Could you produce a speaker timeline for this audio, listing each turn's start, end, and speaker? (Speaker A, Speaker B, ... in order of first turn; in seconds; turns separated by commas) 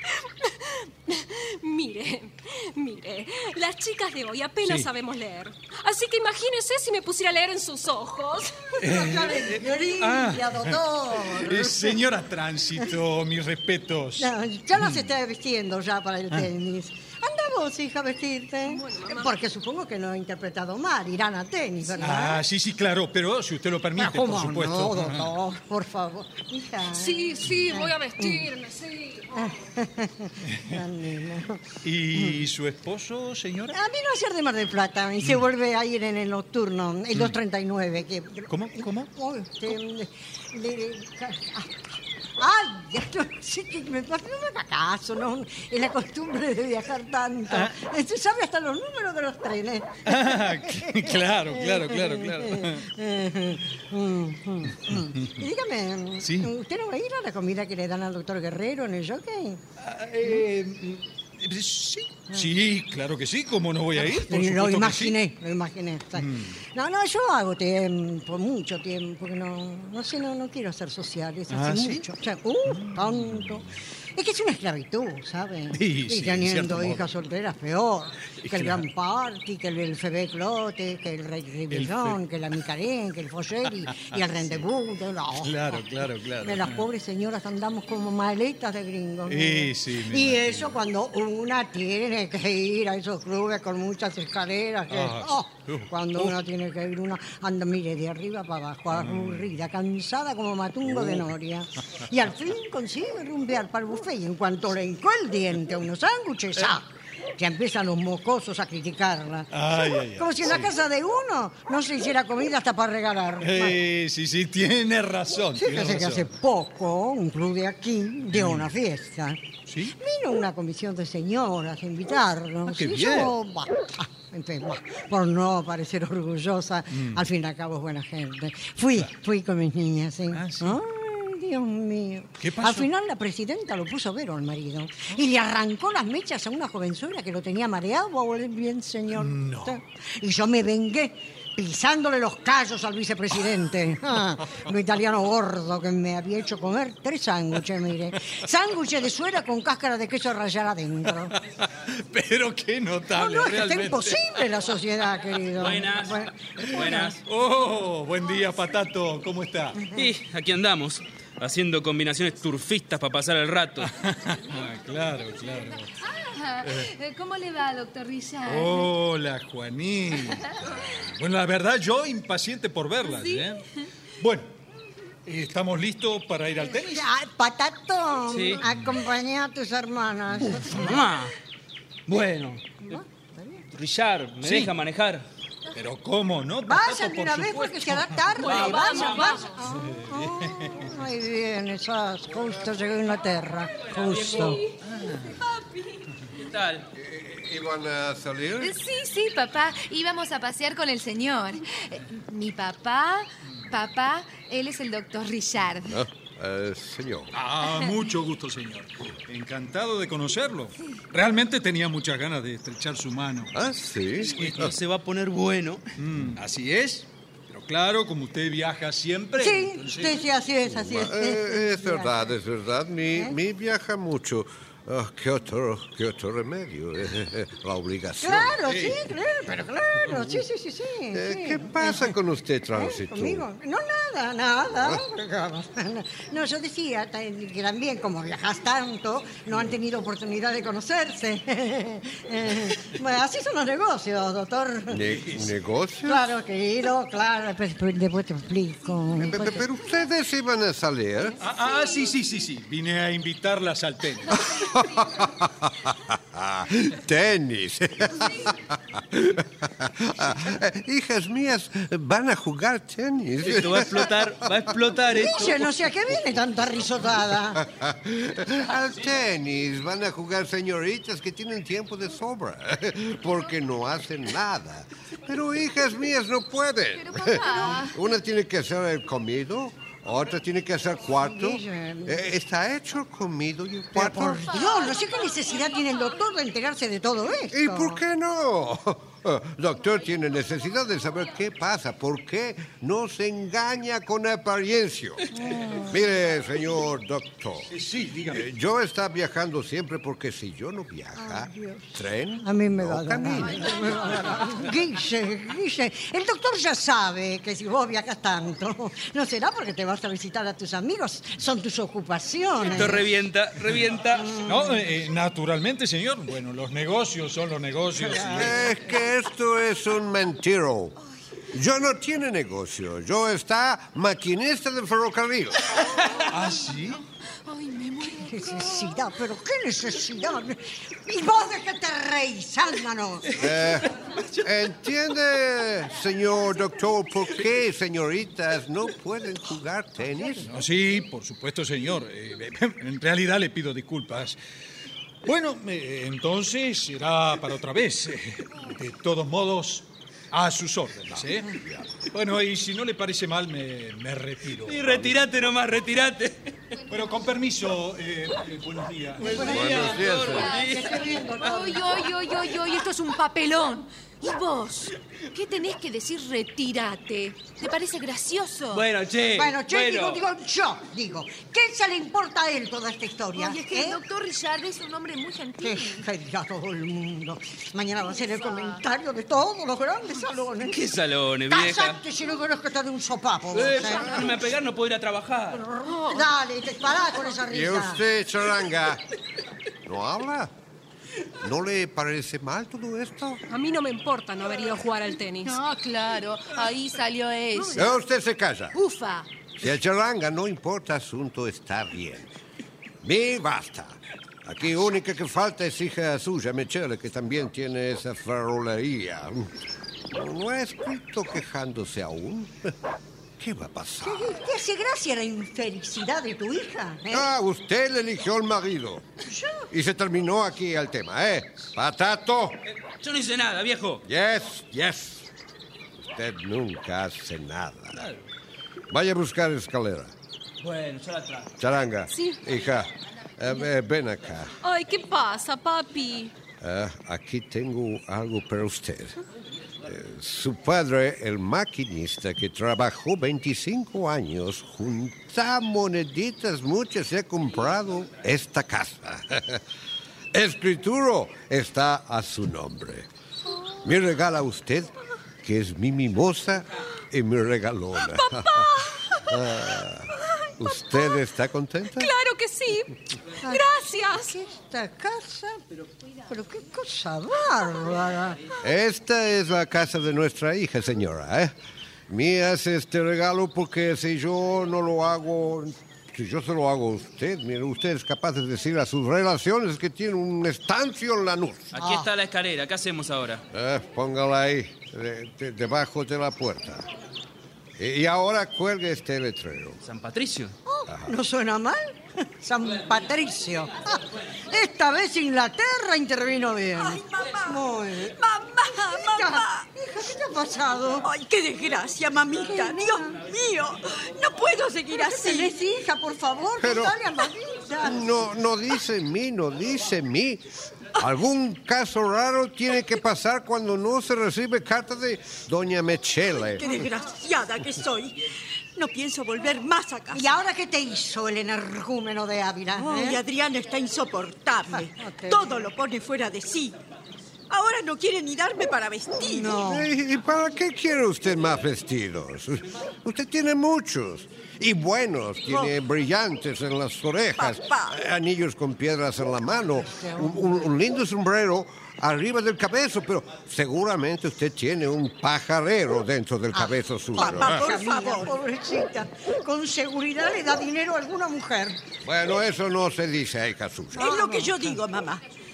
Speaker A: 0.2-8.8, Speaker B: 4.6-4.9, Speaker B: 8.8-15.1, Speaker C: 8.8-12.0, Speaker C: 14.2-22.4, Speaker A: 18.6-19.3, Speaker B: 22.0-25.3, Speaker C: 24.0-28.4, Speaker A: 26.9-29.5, Speaker C: 29.3-32.4, Speaker B: 30.5-30.8, Speaker B: 31.8-33.8, Speaker C: 33.7-59.6, Speaker B: 38.5-39.1, Speaker B: 47.5-47.8, Speaker B: 50.0-52.9, Speaker B: 54.9-55.3, Speaker B: 56.2-56.5, Speaker B: 59.8-65.2, Speaker C: 63.9-85.8, Speaker B: 66.2-66.6, Speaker B: 71.5-72.1, Speaker B: 72.7-73.6, Speaker B: 75.7-77.1, Speaker B: 78.4-78.8, Speaker B: 81.7-82.2, Speaker B: 83.9-84.6, Speaker B: 85.4-86.9, Speaker C: 86.4-113.8, Speaker B: 89.3-90.7, Speaker B: 94.9-96.3, Speaker B: 98.9-99.5, Speaker B: 100.9-101.2, Speaker B: 109.5-110.7, Speaker B: 113.4-116.3, Speaker C: 115.6-151.3, Speaker B: 118.3-118.7, Speaker B: 119.7-119.9, Speaker B: 122.7-123.3, Speaker B: 126.9-127.2, Speaker B: 130.3-130.8, Speaker B: 132.4-132.9, Speaker B: 139.1-139.8, Speaker B: 151.3-154.3, Speaker C: 153.1-156.3, Speaker D: 155.6-157.2, Speaker B: 156.6-159.9, Speaker D: 159.9-163.9, Speaker B: 163.8-165.9, Speaker E: 166.0-168.9, Speaker B: 166.6-166.9, Speaker B: 168.4-173.6, Speaker E: 173.1-173.5, Speaker B: 174.2-174.5, Speaker B: 175.2-177.1, Speaker C: 176.7-181.1, Speaker D: 178.3-178.6, Speaker D: 180.5-181.3, Speaker D: 182.1-182.6, Speaker C: 182.9-183.6, Speaker D: 183.7-185.2, Speaker B: 184.4-184.7, Speaker B: 185.7-188.3, Speaker C: 186.6-194.6, Speaker A: 188.4-189.5, Speaker D: 188.4-189.4, Speaker B: 189.7-190.9, Speaker D: 194.0-194.6, Speaker B: 194.9-195.4, Speaker D: 196.4-196.9, Speaker F: 196.9-198.7, Speaker E: 198.6-206.0, Speaker F: 205.8-207.3, Speaker B: 207.3-213.5, Speaker F: 213.5-214.7, Speaker D: 214.2-215.8, Speaker B: 214.4-214.7, Speaker B: 216.0-220.2, Speaker C: 219.4-222.3, Speaker F: 220.7-228.6, Speaker C: 228.2-232.1, Speaker B: 228.7-229.0, Speaker F: 231.1-233.4, Speaker C: 232.7-245.1, Speaker F: 244.9-246.2, Speaker C: 246.1-249.7, Speaker F: 249.2-251.4, Speaker B: 251.4-254.6, Speaker F: 254.5-264.2, Speaker D: 263.4-265.7, Speaker C: 265.1-267.6, Speaker F: 267.6-284.6, Speaker E: 276.9-278.0, Speaker C: 281.2-282.2, Speaker C: 283.9-288.0, Speaker F: 287.5-295.2, Speaker C: 295.3-296.0, Speaker F: 295.8-297.7, Speaker B: 297.7-298.5, Speaker F: 298.3-304.2, Speaker C: 301.1-313.1, Speaker D: 312.7-314.4, Speaker B: 314.4-318.7, Speaker F: 318.1-320.9, Speaker F: 321.5-325.7, Speaker B: 326.2-327.0, Speaker E: 327.4-328.9, Speaker C: 328.1-333.4, Speaker F: 333.4-333.9, Speaker F: 334.4-340.6, Speaker B: 340.5-344.4, Speaker B: 345.2-355.2, Speaker D: 354.6-356.5, Speaker B: 356.9-360.2, Speaker C: 359.2-361.9, Speaker F: 359.4-360.5, Speaker D: 359.9-360.5, Speaker E: 360.3-368.8, Speaker D: 368.7-370.2, Speaker C: 369.3-374.0, Speaker E: 373.3-376.1, Speaker C: 375.6-380.8, Speaker E: 378.2-378.8, Speaker D: 380.6-382.0, Speaker C: 381.5-384.3, Speaker D: 383.5-385.6, Speaker C: 386.0-388.0, Speaker F: 387.5-389.0, Speaker F: 389.9-390.5, Speaker F: 391.4-393.4, Speaker A: 393.5-395.6, Speaker E: 395.4-398.0, Speaker F: 397.8-398.8, Speaker E: 398.7-399.3, Speaker F: 399.6-402.3, Speaker F: 403.0-409.5, Speaker F: 410.1-412.7, Speaker F: 413.4-414.3, Speaker C: 414.0-417.3, Speaker F: 417.1-419.1, Speaker F: 419.7-422.6, Speaker D: 423.0-424.0, Speaker F: 424.0-425.2, Speaker F: 426.1-428.0, Speaker F: 428.9-430.1, Speaker D: 430.6-431.5, Speaker F: 431.6-434.5, Speaker A: 432.1-432.4, Speaker A: 434.6-436.3, Speaker F: 436.6-439.1, Speaker F: 439.8-449.6, Speaker F: 450.3-453.1, Speaker F: 453.8-454.9, Speaker F: 455.4-458.7, Speaker A: 458.0-459.6, Speaker F: 459.2-462.1, Speaker A: 460.3-461.2, Speaker A: 461.9-464.4, Speaker C: 463.4-465.6, Speaker C: 466.3-468.4, Speaker F: 468.6-471.5, Speaker F: 472.1-481.7, Speaker D: 481.7-483.4, Speaker C: 481.8-482.1, Speaker F: 483.5-486.9, Speaker F: 487.8-489.8, Speaker D: 489.8-490.5, Speaker C: 490.7-498.2, Speaker G: 496.8-499.6, Speaker C: 498.8-501.1, Speaker G: 501.0-505.5, Speaker C: 502.4-503.2, Speaker C: 505.0-508.1, Speaker F: 506.6-506.9, Speaker F: 507.8-510.4, Speaker F: 511.0-516.6, Speaker G: 516.5-520.4, Speaker C: 520.1-523.2, Speaker G: 522.7-526.8, Speaker C: 524.7-525.6, Speaker G: 527.5-529.6, Speaker C: 529.2-529.9, Speaker F: 529.5-547.7, Speaker G: 537.4-538.0, Speaker C: 539.9-540.6, Speaker C: 546.5-551.8, Speaker G: 547.2-548.3, Speaker F: 552.0-554.2, Speaker C: 553.9-554.6, Speaker G: 554.0-555.2